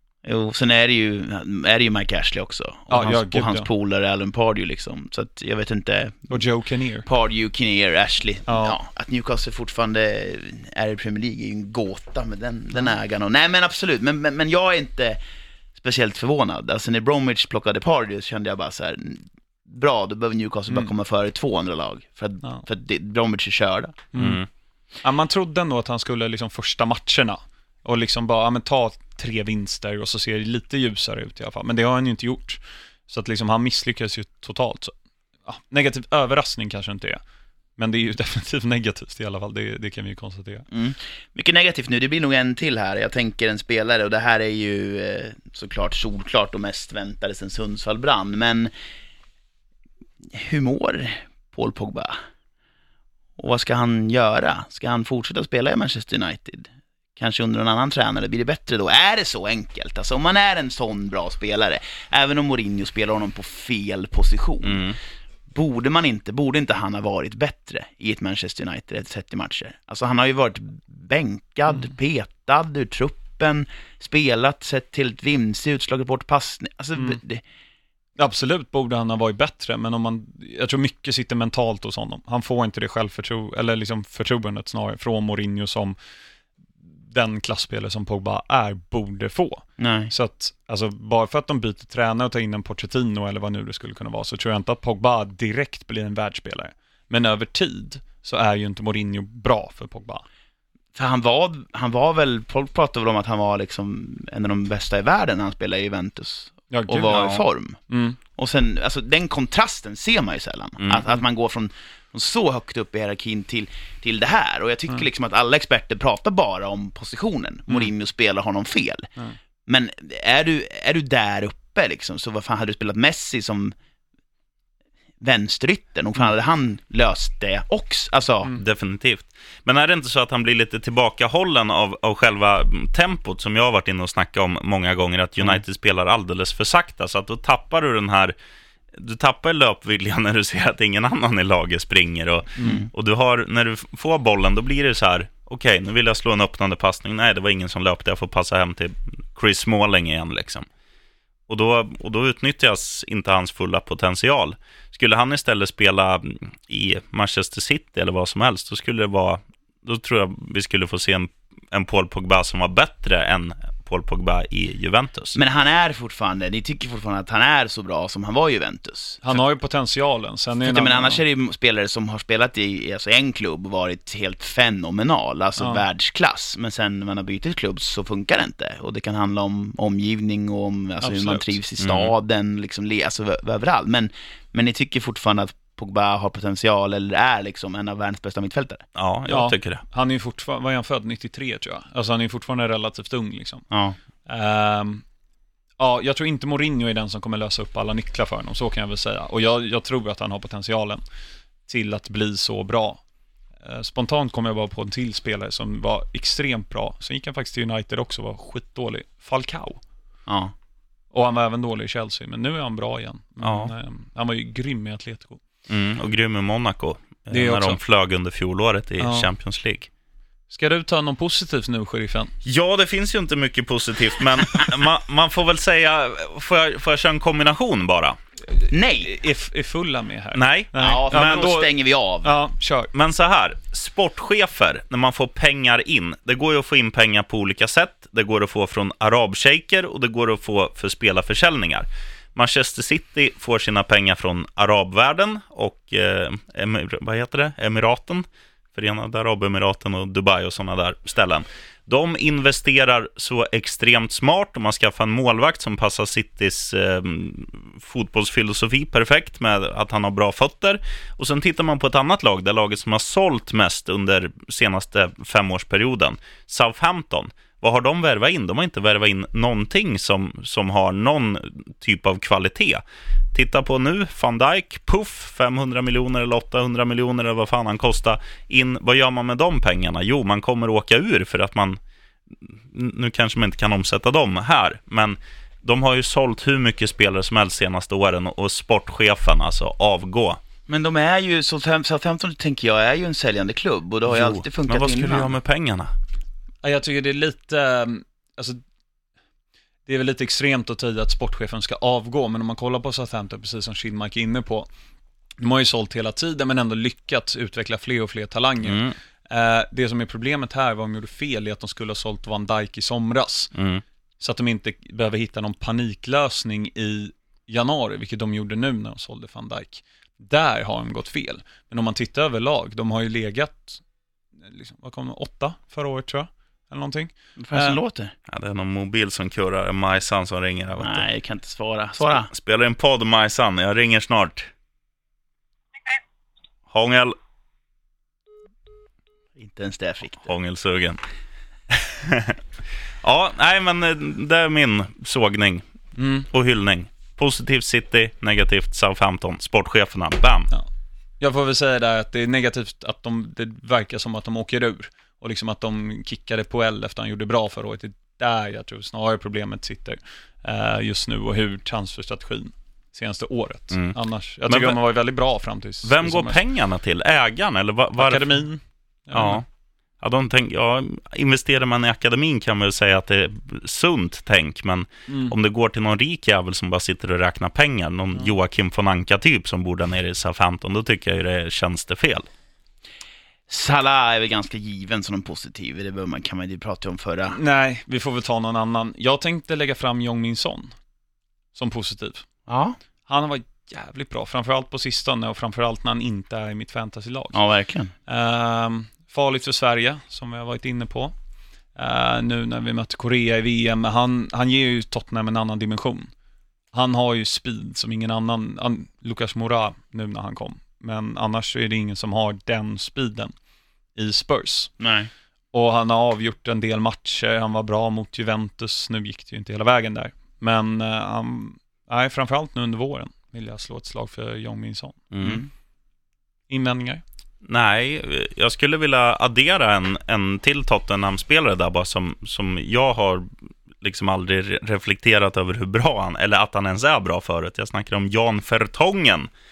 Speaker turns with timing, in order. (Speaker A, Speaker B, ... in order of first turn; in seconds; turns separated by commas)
Speaker A: 0.2-6.4, Speaker B: 2.9-3.7, Speaker B: 6.3-7.1, Speaker A: 7.0-15.2, Speaker B: 8.5-8.8, Speaker A: 15.8-24.1, Speaker B: 24.1-24.4, Speaker C: 24.2-24.5, Speaker B: 25.0-34.9, Speaker B: 35.5-37.2, Speaker B: 37.8-40.7, Speaker A: 40.7-48.7, Speaker A: 50.2-52.2, Speaker A: 53.4-64.8, Speaker C: 64.6-65.0, Speaker A: 65.5-77.4, Speaker B: 78.2-86.0, Speaker B: 87.1-100.2, Speaker A: 89.8-90.1, Speaker A: 101.0-107.8, Speaker B: 106.7-108.2, Speaker C: 107.1-107.4, Speaker A: 108.4-119.1, Speaker A: 119.7-123.8, Speaker A: 125.2-128.5, Speaker C: 128.6-138.3, Speaker C: 138.9-150.7, Speaker A: 142.6-142.9, Speaker C: 151.5-165.4, Speaker A: 165.3-169.4, Speaker B: 169.2-171.2, Speaker A: 170.6-188.8, Speaker B: 175.6-175.8, Speaker B: 181.0-181.6, Speaker C: 181.8-182.1, Speaker C: 188.9-189.8, Speaker B: 189.3-193.7, Speaker A: 193.7-194.0, Speaker B: 194.3-195.0, Speaker B: 195.8-201.0, Speaker B: 201.7-203.0, Speaker B: 203.6-209.8, Speaker A: 210.3-210.5, Speaker B: 211.1-215.4, Speaker C: 213.4-213.7, Speaker C: 215.7-219.9, Speaker B: 217.3-217.8, Speaker B: 219.0-219.3, Speaker B: 220.5-222.3, Speaker C: 222.4-228.2, Speaker B: 228.6-231.7, Speaker A: 228.7-229.1, Speaker C: 230.3-231.6, Speaker A: 230.8-232.3, Speaker B: 232.2-232.9, Speaker C: 232.9-281.8, Speaker C: 282.4-290.4, Speaker A: 290.7-295.4, Speaker C: 294.1-295.9, Speaker B: 296.6-298.6, Speaker B: 299.9-304.7, Speaker B: 305.4-313.5, Speaker C: 308.6-308.9, Speaker C: 313.5-313.8, Speaker B: 314.2-323.8, Speaker B: 324.4-327.8, Speaker A: 327.4-328.1, Speaker C: 328.3-331.1, Speaker A: 330.8-332.3, Speaker C: 332.1-334.5, Speaker C: 336.7-337.2, Speaker A: 339.4-340.3, Speaker C: 340.2-341.0, Speaker C: 341.7-342.4, Speaker C: 343.0-345.6, Speaker B: 346.0-346.3, Speaker C: 346.3-350.5, Speaker B: 351.2-366.4, Speaker C: 363.7-364.0, Speaker C: 364.5-364.8, Speaker C: 365.8-368.4, Speaker B: 368.0-369.4, Speaker C: 369.1-369.4, Speaker C: 370.0-382.3, Speaker B: 375.1-375.3, Speaker A: 383.5-387.4, Speaker B: 387.3-390.8, Speaker B: 391.6-392.2, Speaker A: 392.5-392.8, Speaker B: 393.1-397.4, Speaker A: 397.3-397.9, Speaker B: 398.1-401.1, Speaker B: 401.8-406.1, Speaker B: 406.7-413.3, Speaker B: 414.0-414.7, Speaker A: 414.8-415.1, Speaker B: 415.5-425.1, Speaker C: 425.1-425.4, Speaker B: 426.5-427.0, Speaker C: 427.4-433.3, Speaker C: 433.8-439.3